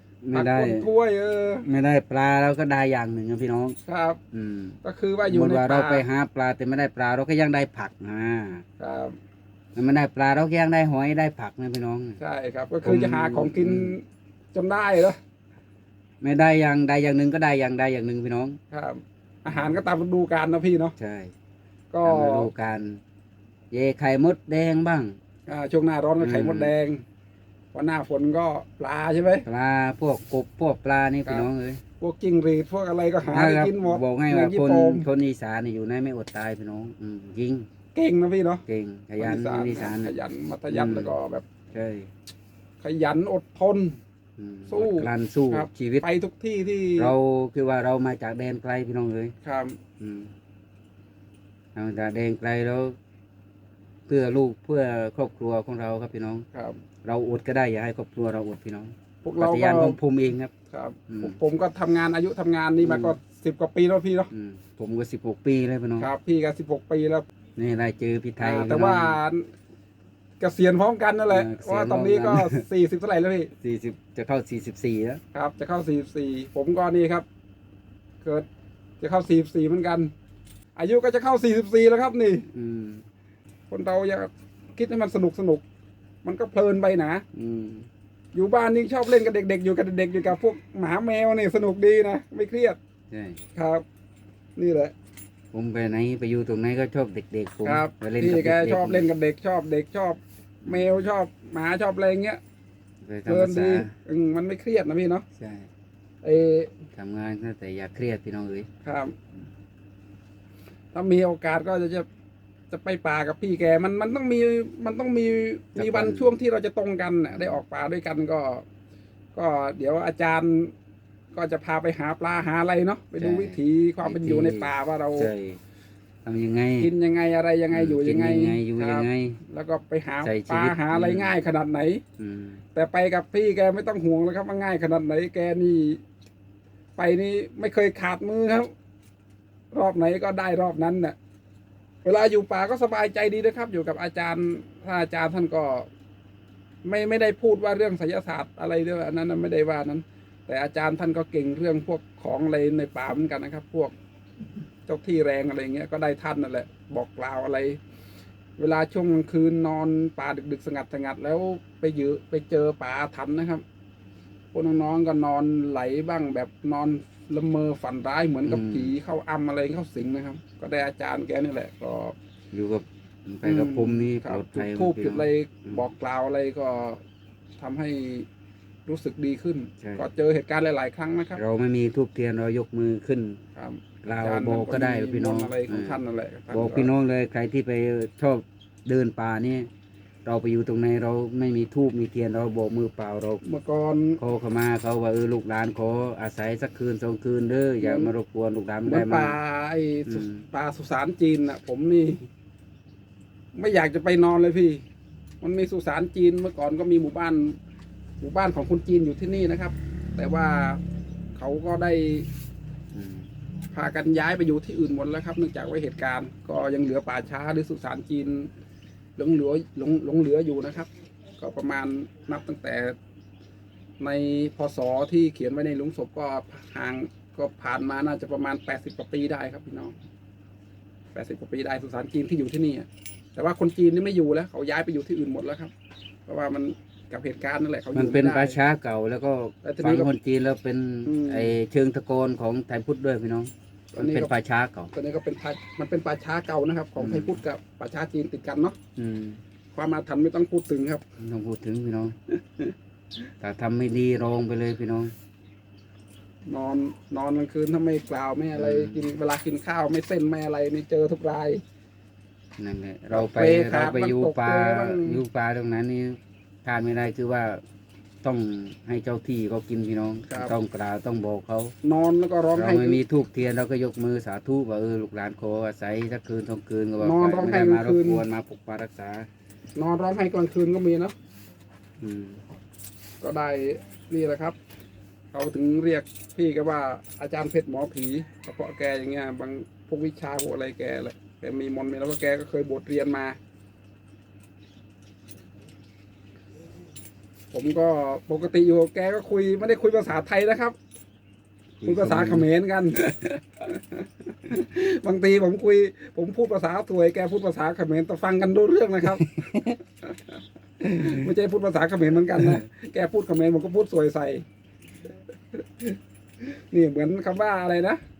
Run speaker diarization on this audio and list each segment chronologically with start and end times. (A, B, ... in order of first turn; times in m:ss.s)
0:00.2-0:00.9 A
0:00.3-0:01.7 B
0:01.6-0:03.8 A
0:03.9-0:04.2 B
0:04.3-0:08.6 A
0:04.8-0:06.0 B
0:08.8-0:09.2 B
0:09.8-0:12.2 A
0:12.2-0:15.2 B
0:12.8-0:14.0 A
0:16.2-0:18.6 A
0:18.7-0:21.0 B
0:19.5-0:19.8 A
0:21.0-0:21.3 A
0:21.9-0:22.5 B
0:22.0-0:23.0 A
0:23.7-0:25.2 A
0:25.5-0:27.0 B
0:26.2-0:26.7 A
0:27.7-0:29.5 B
0:29.4-0:31.8 A
0:32.0-0:35.1 B
0:33.2-0:37.7 A
0:38.0-0:38.6 B
0:38.7-0:40.1 A
0:39.2-0:41.4 B
0:40.7-0:41.1 A
0:41.7-0:42.1 A
0:42.8-0:44.0 B
0:44.4-0:46.0 A
0:44.7-0:47.1 B
0:47.0-0:49.3 A
0:49.4-0:49.8 B
0:50.0-0:50.3 A
0:51.8-0:53.0 A
0:54.1-0:56.5 A
0:56.5-0:56.8 B
0:57.0-1:00.5 A
0:59.2-1:00.0 B
1:00.7-1:04.3 B
1:01.1-1:01.4 A
1:02.8-1:03.2 A
1:04.3-1:06.1 A
1:06.0-1:07.3 B
1:07.6-1:09.2 A
1:08.4-1:09.5 B
1:10.4-1:13.5 B
1:11.3-1:12.6 A
1:13.6-1:15.2 A
1:15.3-1:17.3 B
1:19.0-1:20.1 B
1:20.8-1:22.5 B
1:22.5-1:23.0 A
1:23.7-1:25.6 B
1:26.2-1:27.2 B
1:27.4-1:27.9 A
1:28.3-1:32.8 B
1:33.1-1:33.4 A
1:33.6-1:33.8 B
1:34.6-1:34.9 B
1:35.5-1:39.1 A
1:37.6-1:42.4 B
1:40.6-1:41.1 A
1:43.0-1:43.9 A
1:43.3-1:45.2 B
1:45.4-1:45.7 A
1:46.2-1:46.8 B
1:46.9-1:48.7 A
1:48.8-1:49.2 B
1:50.9-1:52.1 B
1:52.7-1:58.6 B
1:55.8-1:56.4 A
1:57.3-1:57.6 A
1:59.3-2:00.7 B
2:01.3-2:05.3 B
2:03.2-2:05.6 A
2:06.2-2:06.9 A
2:06.8-2:12.0 B
2:07.7-2:09.4 A
2:10.2-2:11.3 A
2:12.2-2:12.6 A
2:12.8-2:16.0 B
2:17.0-2:18.7 B
2:19.7-2:21.2 B
2:22.0-2:25.9 B
2:26.8-2:33.9 B
2:34.9-2:37.8 B
2:38.6-2:43.6 B
2:44.5-2:52.2 B
2:48.5-2:48.9 A
2:52.5-2:55.8 A
2:53.4-2:57.0 B
2:57.6-2:58.3 B
2:58.9-3:01.4 B
3:01.4-3:03.4 A
3:03.6-3:06.9 B
3:04.0-3:06.0 A
3:06.5-3:09.7 A
3:10.2-3:13.4 A
3:13.4-3:14.2 B
3:14.2-3:19.4 A
3:17.8-3:18.1 B
3:18.8-3:22.3 B
3:20.1-3:20.5 A
3:23.6-3:24.8 B
3:25.4-3:27.6 B
3:28.2-3:30.8 B
3:31.4-3:32.3 B
3:32.9-3:33.3 A
3:33.7-3:38.5 B
3:39.2-3:43.0 B
3:44.0-3:50.0 B
3:51.1-3:55.7 B
3:56.3-3:58.6 B
3:58.0-4:04.9 A
3:59.6-4:00.1 B
4:01.1-4:01.6 B
4:04.0-4:04.3 B
4:04.9-4:08.8 B
4:07.0-4:07.4 A
4:09.0-4:09.4 A
4:09.7-4:11.0 B
4:11.2-4:12.2 A
4:13.4-4:15.1 A
4:16.5-4:21.6 B
4:18.6-4:19.1 A
4:22.6-4:27.6 A
4:23.1-4:25.2 B
4:28.2-4:31.7 A
4:30.3-4:30.6 B
4:31.8-4:33.0 B
4:32.6-4:39.3 A
4:37.0-4:38.2 B
4:39.8-4:41.1 B
4:42.0-4:42.4 A
4:43.2-4:44.6 B
4:45.3-4:53.4 B
4:57.5-5:00.8 B
5:01.8-5:02.5 A
5:01.8-5:09.5 B
5:09.2-5:09.7 A
5:10.8-5:11.2 A
5:11.0-5:14.4 B
5:15.5-5:18.0 B